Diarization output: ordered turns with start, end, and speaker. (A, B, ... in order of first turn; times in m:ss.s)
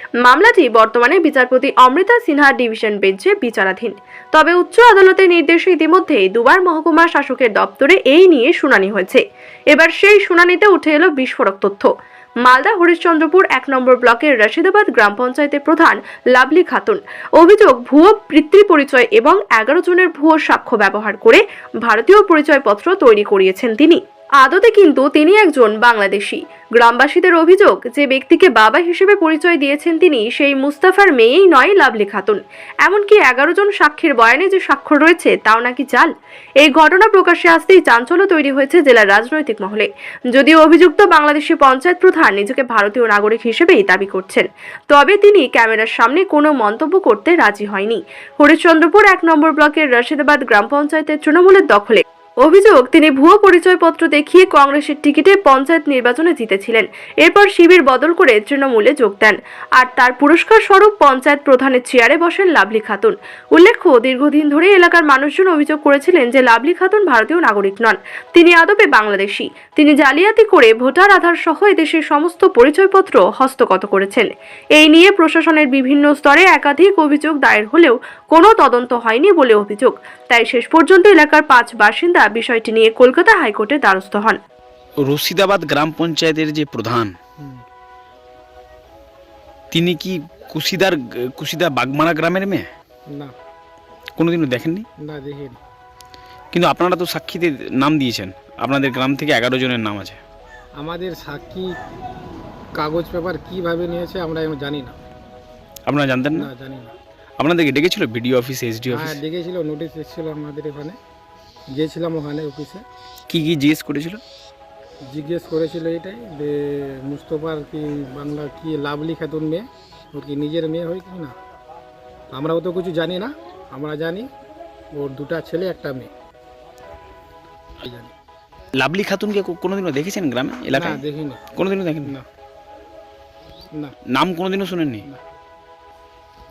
0:00.2-0:11.9 A
0:12.4-1:24.4 A
1:25.0-1:27.1 B
1:27.4-1:27.6 C
1:29.7-1:32.7 B
1:33.1-1:33.3 C
1:34.2-1:34.9 B
1:35.0-1:35.6 C
1:36.5-1:40.2 B
1:40.8-1:41.8 C
1:42.8-1:45.0 C
1:45.9-1:46.5 B
1:46.3-1:47.0 C
1:47.4-1:49.2 B
1:48.9-1:51.0 C
1:51.7-1:52.8 C
1:53.3-1:54.2 B
1:55.1-2:01.4 C
2:02.3-2:04.3 C
2:05.0-2:06.1 C
2:07.8-2:08.1 C
2:08.8-2:11.0 B
2:10.7-2:11.4 C
2:11.6-2:12.1 B
2:14.1-2:15.1 B